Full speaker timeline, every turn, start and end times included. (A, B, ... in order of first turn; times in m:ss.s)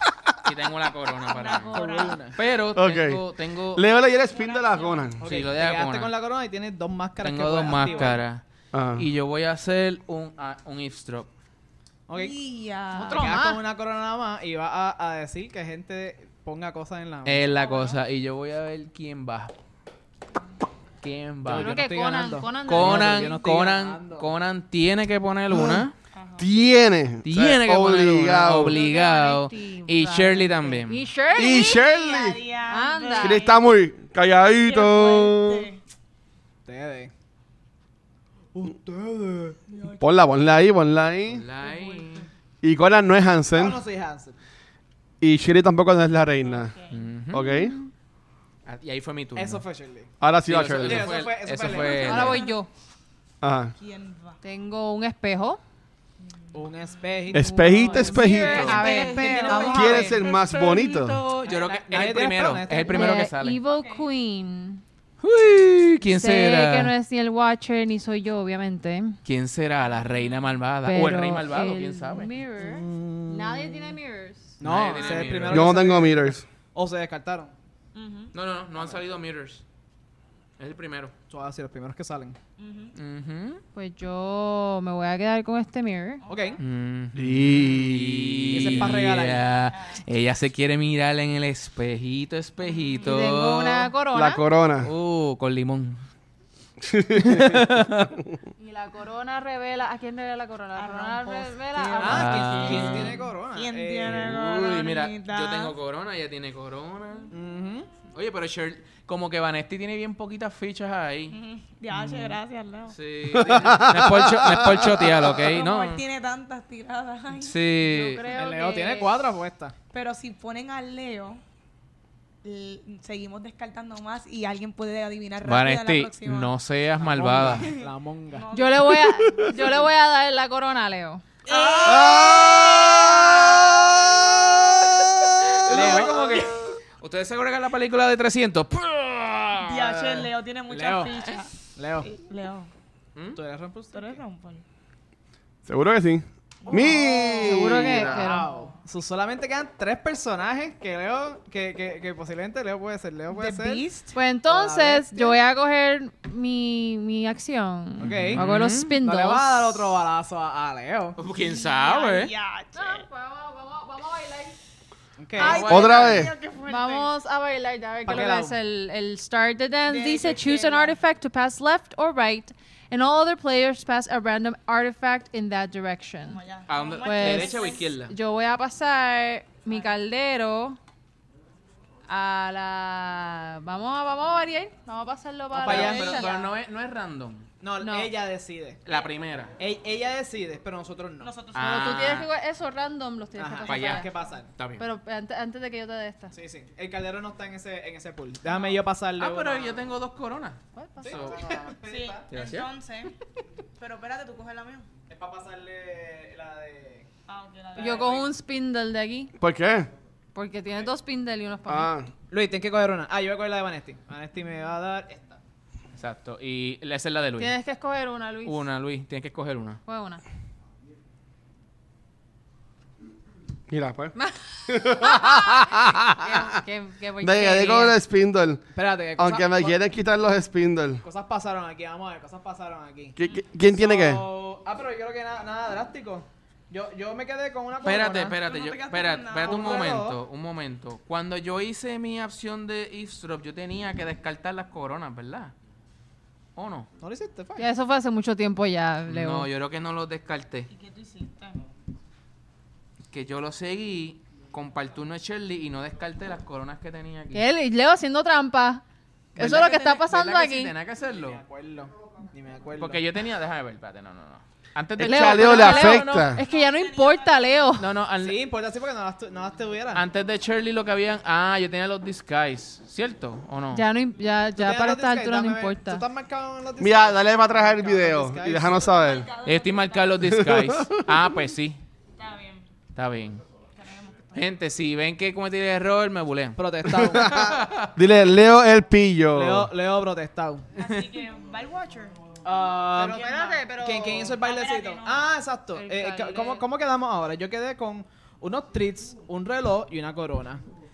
0:00.4-0:03.8 A
0:01.2-0:02.2 B
0:01.7-0:02.4 C
0:02.7-0:05.2 D
0:04.3-0:05.1 B
0:05.2-0:06.1 A
0:05.2-0:08.2 C
0:07.2-0:08.4 A
0:07.7-0:08.2 B
0:08.7-0:09.0 D
0:08.9-0:11.3 A
0:12.1-0:12.4 C
0:12.1-0:13.3 B
0:12.9-0:13.6 E
0:13.0-0:17.5 C
0:17.2-0:19.5 A
0:17.5-0:18.0 B
0:21.0-0:21.7 A
0:21.4-0:24.3 C
0:21.5-0:23.4 E
0:22.6-0:25.9 A
0:25.5-0:28.8 D
0:26.1-0:26.5 B
0:27.2-0:31.0 A
0:28.7-0:31.8 E
0:31.3-0:32.4 D
0:31.6-0:33.6 B
0:32.7-0:33.5 E
0:33.2-0:35.7 D
0:34.6-0:35.8 B
0:36.6-0:37.1 C
0:38.5-0:39.6 C
0:39.7-0:40.2 B
0:40.0-0:41.4 D
0:41.3-0:42.2 A
0:41.6-0:42.2 B
0:42.6-0:43.8 D
0:43.5-0:44.4 C
0:45.2-0:46.7 D
0:46.4-0:47.1 B
0:46.9-0:47.4 A
0:47.3-0:47.7 D
0:47.4-0:47.9 E
0:48.6-0:49.6 A
0:49.3-0:50.1 C
0:50.2-0:51.2 D
0:50.5-0:52.5 A
0:50.8-0:52.4 C
0:51.6-0:52.6 B
0:52.0-0:52.7 E
0:53.4-0:53.7 D
0:53.7-0:54.4 B
0:54.4-0:55.6 E
0:56.2-0:57.3 B
0:56.5-0:59.7 C
0:57.3-0:58.8 D
0:57.6-1:00.2 E
0:58.2-1:03.6 A
0:58.3-1:00.4 B
0:59.6-1:01.2 D
1:01.4-1:03.2 C
1:02.9-1:04.8 E
1:03.6-1:04.1 B
1:05.2-1:06.9 A
1:06.1-1:09.2 E
1:09.2-1:12.3 A
1:10.8-1:14.6 E
1:12.6-1:14.0 C
1:14.6-1:17.5 C
1:14.6-1:15.8 A
1:14.8-1:15.5 B
1:15.5-1:16.4 D
1:17.9-1:18.3 B
1:18.3-1:19.6 A
1:18.8-1:19.0 C
1:20.6-1:21.1 A
1:21.3-1:22.4 C
1:22.6-1:22.9 B
1:22.9-1:23.6 A
1:23.7-1:26.2 E
1:26.2-1:26.6 B
1:26.2-1:26.6 C
1:26.6-1:33.9 A
1:27.1-1:28.9 D
1:28.5-1:29.5 C
1:28.9-1:30.0 B
1:32.6-1:32.9 B
1:33.0-1:34.4 E
1:34.1-1:34.9 D
1:34.8-1:36.0 A
1:36.8-1:37.6 D
1:37.2-1:38.1 A
1:38.6-1:43.1 E
1:40.7-1:45.8 B
1:42.0-1:44.2 C
1:42.1-1:43.2 A
1:44.0-1:47.3 A
1:47.3-1:47.9 C
1:48.1-1:51.4 A
1:51.3-1:53.0 B
1:52.9-1:56.0 A
1:53.3-1:55.3 D
1:55.1-1:57.6 B
1:57.4-1:58.2 A
1:57.8-1:59.2 E
1:58.3-1:59.7 C
1:59.9-2:01.4 B
2:02.4-2:06.5 B
2:05.4-2:07.7 A
2:07.0-2:08.5 C
2:07.4-2:09.4 B
2:08.5-2:11.2 E
2:11.4-2:12.7 B
2:11.4-2:20.2 A
2:15.6-2:16.5 C
2:19.6-2:22.7 B
2:20.7-2:21.2 C
2:21.8-2:22.1 C
2:23.3-2:24.2 C
2:23.9-2:24.6 B
2:25.6-2:28.3 D
2:26.6-2:27.8 B
2:26.7-2:33.8 C
2:27.3-2:28.5 E
2:28.3-2:28.7 B
2:33.3-2:34.2 B
2:34.1-2:39.9 E
2:34.5-2:35.4 C
2:38.0-2:38.4 C
2:38.1-2:39.0 A
2:39.0-2:41.2 C
2:41.2-2:42.3 A
2:41.4-2:43.0 B
2:42.7-2:44.6 E
2:45.2-2:45.7 C
2:45.4-2:47.1 B
2:45.4-2:46.3 A
2:45.7-2:46.3 D
2:46.6-2:56.4 E
2:48.0-2:48.6 C
2:49.9-2:51.0 B
2:56.2-2:57.9 B
2:56.7-2:58.1 A
2:57.0-3:00.8 E
3:02.0-3:06.4 E
3:05.5-3:06.4 C
3:05.6-3:07.5 A
3:05.7-3:06.4 B
3:07.6-3:08.8 C
3:07.8-3:08.1 E
3:08.8-3:09.5 A
3:09.6-3:11.3 C
3:11.2-3:12.0 B
3:11.5-3:12.3 A
3:11.6-3:14.1 E
3:13.4-3:14.5 C
3:13.6-3:14.8 A
3:14.8-3:16.3 E
3:16.3-3:19.8 C
3:19.2-3:21.4 A
3:20.8-3:21.1 E
3:21.0-3:22.3 C
3:21.8-3:23.1 B
3:22.3-3:22.7 A
3:23.8-3:24.9 B
3:25.1-3:27.1 C
3:27.3-3:28.3 B
3:27.8-3:28.2 C
3:27.8-3:29.3 E
3:29.4-3:29.9 D
3:30.3-3:31.9 E
3:31.7-3:32.1 D
3:32.3-3:35.4 C
3:36.0-3:37.5 A
3:37.4-3:38.6 E
3:38.4-3:39.8 A
3:39.8-3:40.2 E
3:43.7-3:44.1 D
3:44.2-3:48.0 E
3:44.7-3:46.6 D
3:47.2-3:48.6 D
3:48.7-3:49.8 C
3:49.2-3:51.0 D
3:51.0-3:58.4 C
3:53.2-3:54.2 D
3:57.8-4:05.5 A
3:58.4-3:59.8 B
3:59.4-4:00.2 C
4:06.6-4:06.9 A
4:07.0-4:07.7 C
4:07.6-4:09.5 E
4:09.1-4:10.7 A
4:10.7-4:11.7 B
4:13.1-4:17.4 A
4:17.3-4:18.8 E
4:19.4-4:20.7 E
4:19.4-4:21.4 A
4:21.1-4:23.0 C
4:22.8-4:26.3 A
4:25.0-4:26.4 D
4:25.0-4:27.9 E
4:26.4-4:27.8 B
4:27.8-4:28.4 A
4:28.2-4:30.0 C
4:29.9-4:33.8 A
4:33.7-4:36.0 E
4:34.6-4:38.9 C
4:36.8-4:39.3 D
4:38.6-4:40.4 B
4:39.4-4:41.8 A
4:40.3-4:41.1 D
4:42.2-4:42.7 B
4:42.9-4:43.4 A
4:43.7-4:44.5 B
4:44.3-4:46.6 A
4:46.6-4:47.4 C
4:47.0-4:49.7 D
4:47.1-4:47.9 A
4:49.3-4:50.7 C
4:50.8-4:52.2 B
4:52.4-5:00.6 C
4:52.9-4:54.3 E
4:54.3-4:55.2 B
4:55.7-4:56.6 E